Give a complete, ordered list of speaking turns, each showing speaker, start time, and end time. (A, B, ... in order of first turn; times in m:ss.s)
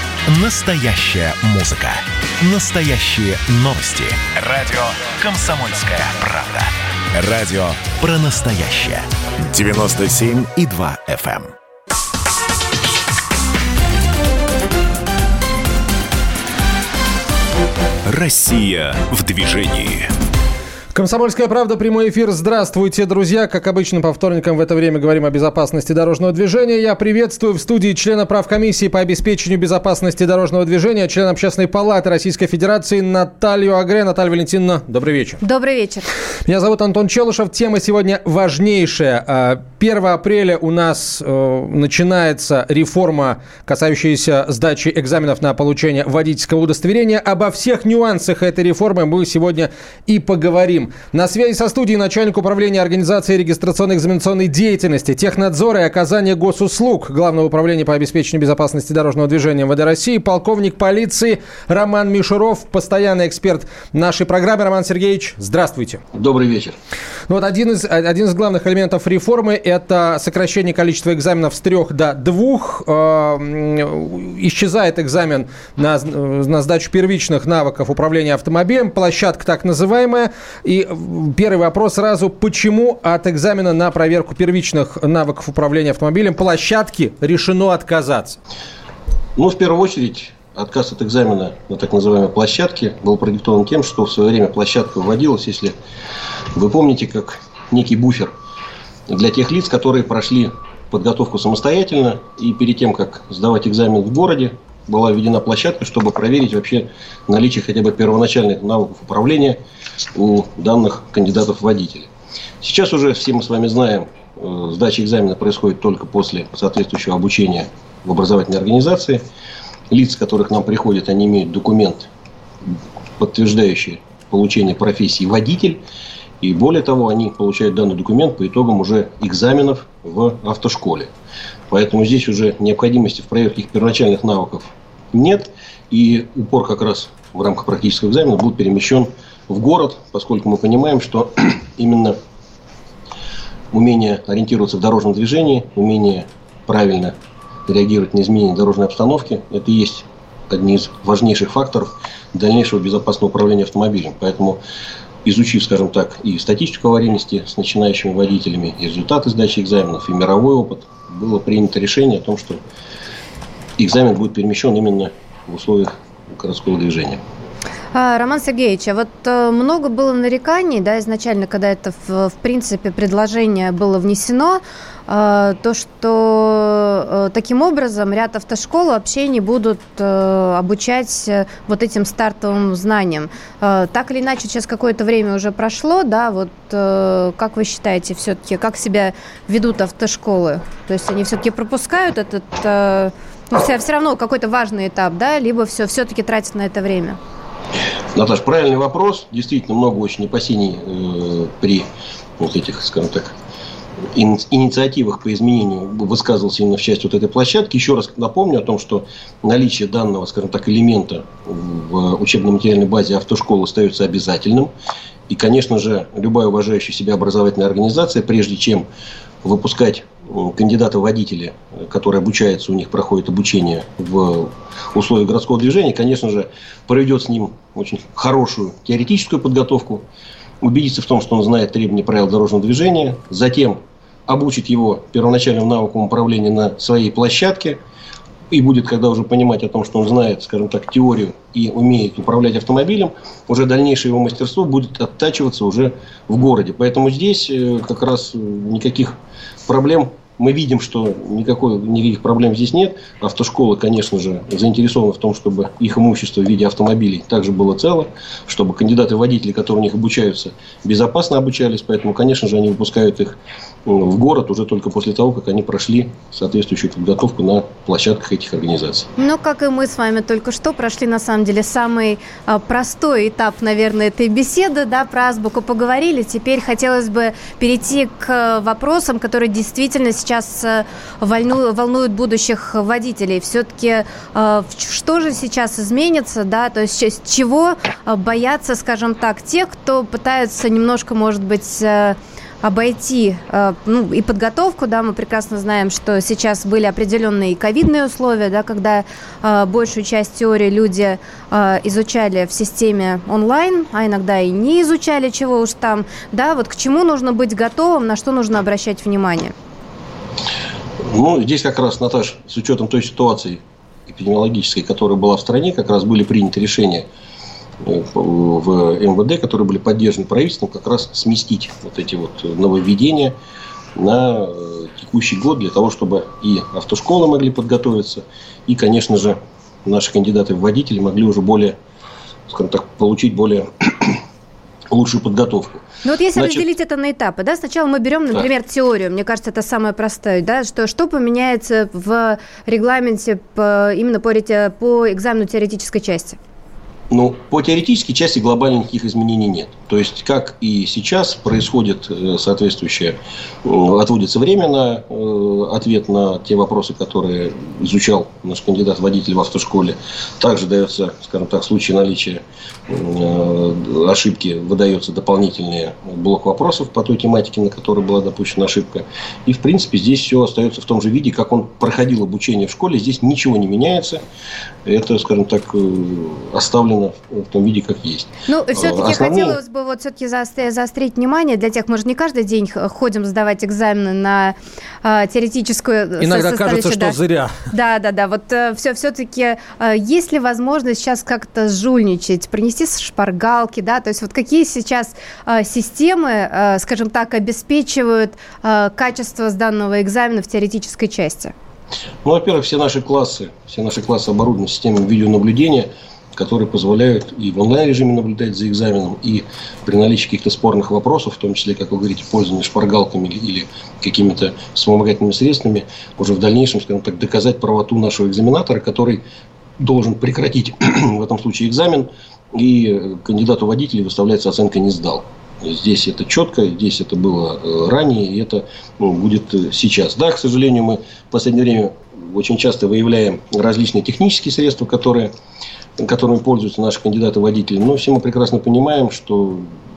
0:00.3-0:11.5 A
0:18.1-0:20.1 A
0:20.9-0:35.4 B
0:35.4-0:36.1 C
0:36.5-1:06.0 B
1:06.1-1:06.8 D
1:07.3-1:28.4 B
1:29.4-1:35.8 D
1:36.5-1:38.3 D
1:39.1-1:49.6 D
1:50.1-1:52.1 D
1:52.6-1:59.2 D
1:59.9-2:02.1 D
2:03.2-2:05.8 D
2:06.4-2:11.1 D
2:11.7-2:22.2 D
2:23.7-2:27.2 D
2:27.7-2:34.6 D
2:35.2-2:42.6 D
2:43.8-2:47.2 D
2:47.9-3:17.2 C
3:18.2-3:21.9 D
3:22.4-3:23.4 D
3:24.1-3:34.7 D
3:35.3-3:38.9 D
3:39.4-3:50.1 D
3:50.6-3:57.8 D
3:58.5-4:29.1 D
4:29.2-5:09.5 C
5:11.0-5:17.1 D
5:17.8-5:23.4 D
5:24.0-5:31.8 D
5:32.5-5:34.2 D
5:34.9-5:36.6 D
5:36.0-5:46.4 C
5:47.1-6:14.2 D
6:14.8-6:19.6 D
6:18.5-6:27.2 C
6:26.2-6:27.6 B
6:27.7-6:41.5 C
6:42.2-6:59.2 D
6:59.8-7:15.3 D
7:16.0-7:19.7 D